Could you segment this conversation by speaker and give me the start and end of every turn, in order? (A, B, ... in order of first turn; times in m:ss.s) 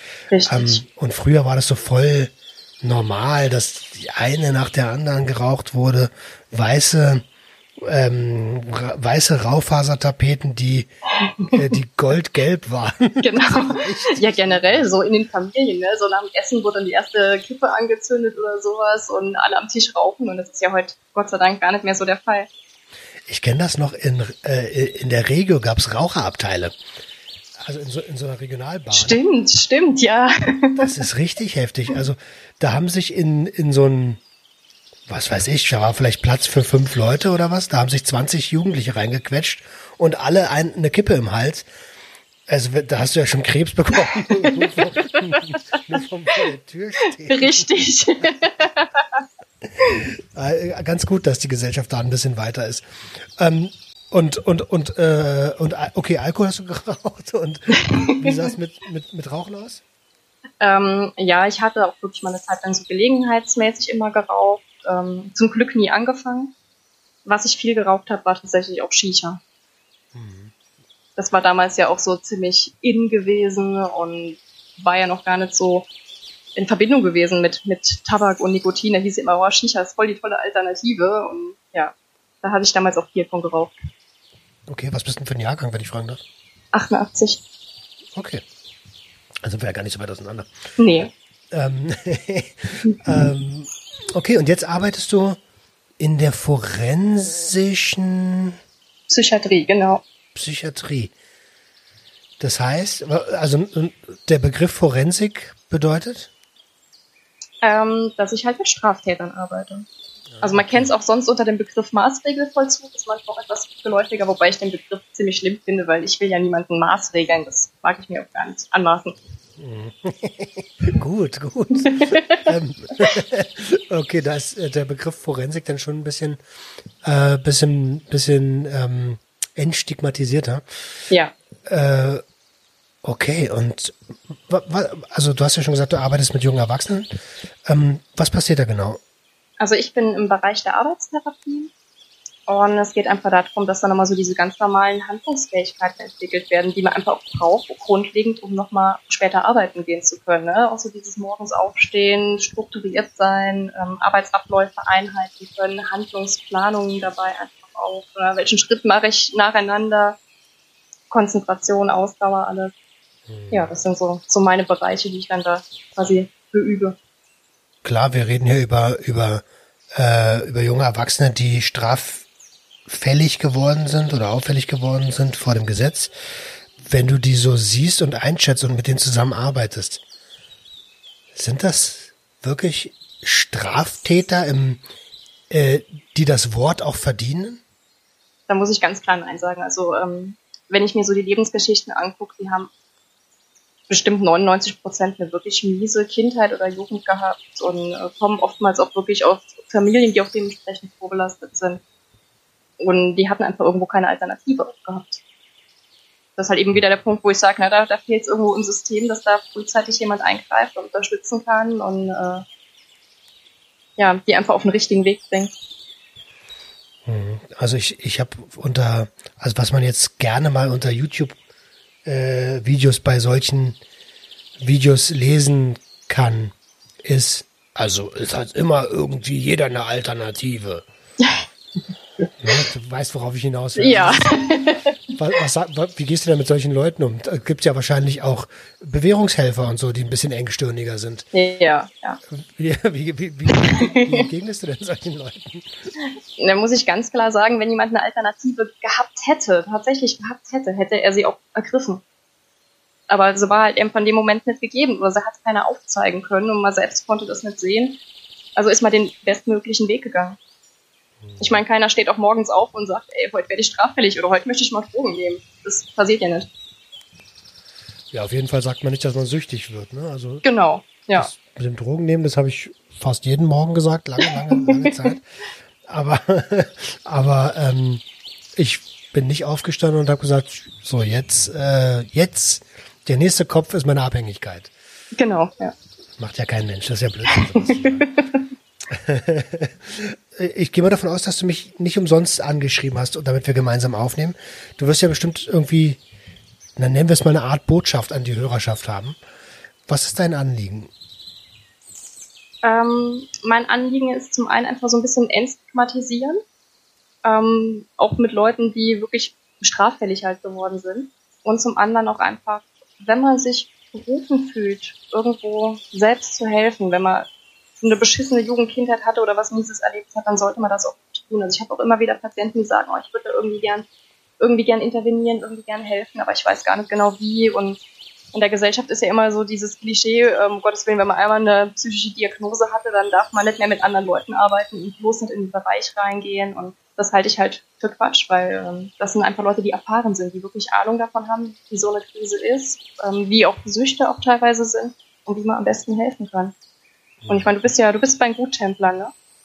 0:00.3-0:00.8 A
0:00.4-0:07.2 B
0:07.8-0:10.9 B
0:11.5-0:14.8 B
0:13.2-0:22.5 A
0:23.2-0:26.8 B
0:27.6-0:29.2 B
0:28.9-0:30.8 A
0:30.8-0:34.2 B
0:35.1-0:41.7 B
0:42.5-0:47.7 B
0:47.2-0:48.9 A
0:49.9-0:59.8 B
1:00.6-1:06.5 A
1:07.2-1:09.4 A
1:10.1-1:10.5 B
1:11.2-1:15.9 A
1:16.5-1:23.7 A
1:24.7-1:26.2 B
1:26.7-1:27.4 A
1:28.1-1:28.4 B
1:29.4-1:30.5 B
1:30.8-1:31.1 A
1:31.5-1:35.4 B
1:36.0-1:38.6 B
1:39.1-1:40.0 A
1:40.3-1:41.1 B
1:42.4-1:46.3 B
1:47.6-1:49.9 A
1:50.3-1:50.9 B
1:50.4-1:59.2 A
1:59.6-2:06.4 B
2:01.9-2:02.4 A
2:07.0-2:10.6 B
2:11.6-2:12.2 B
2:13.0-2:19.0 B
2:19.6-2:21.7 A
2:22.5-2:40.2 A
2:41.1-2:42.7 A
2:43.3-2:43.7 B
2:43.5-2:47.0 A
2:47.8-2:52.2 B
2:52.9-2:56.1 B
2:56.8-3:00.0 B
3:01.3-3:04.8 B
3:05.5-3:07.6 B
3:08.5-3:12.7 A
3:13.9-3:21.8 A
3:22.8-3:25.2 A
3:26.4-3:32.4 A
3:34.0-3:35.5 A
3:37.0-3:41.4 B
3:42.0-3:43.8 B
3:44.6-3:50.8 B
3:51.2-3:51.4 A
3:52.4-3:54.4 B
3:53.8-3:54.9 A
3:55.2-4:01.3 B
4:01.3-4:02.2 A
4:02.3-4:05.7 B
4:03.5-4:04.2 A
4:06.4-4:12.0 A
4:13.1-4:18.0 A
4:18.6-4:20.4 A
4:21.2-4:21.6 B
4:21.4-4:26.5 A
4:28.1-4:30.4 B
4:30.4-4:31.3 A
4:31.2-4:35.2 B
4:34.5-4:35.2 A
4:35.8-4:38.0 B
4:38.6-4:44.7 B
4:45.1-4:45.7 A
4:46.2-4:48.1 B
4:47.9-4:48.4 A
4:48.9-4:56.0 B
4:56.8-4:59.2 B
4:59.9-5:00.9 B
5:02.6-5:06.4 A
5:07.2-5:17.3 A
5:17.8-5:23.9 A
5:24.4-5:27.8 A
5:28.3-5:46.5 A
5:47.2-5:47.5 B
5:47.3-5:49.1 A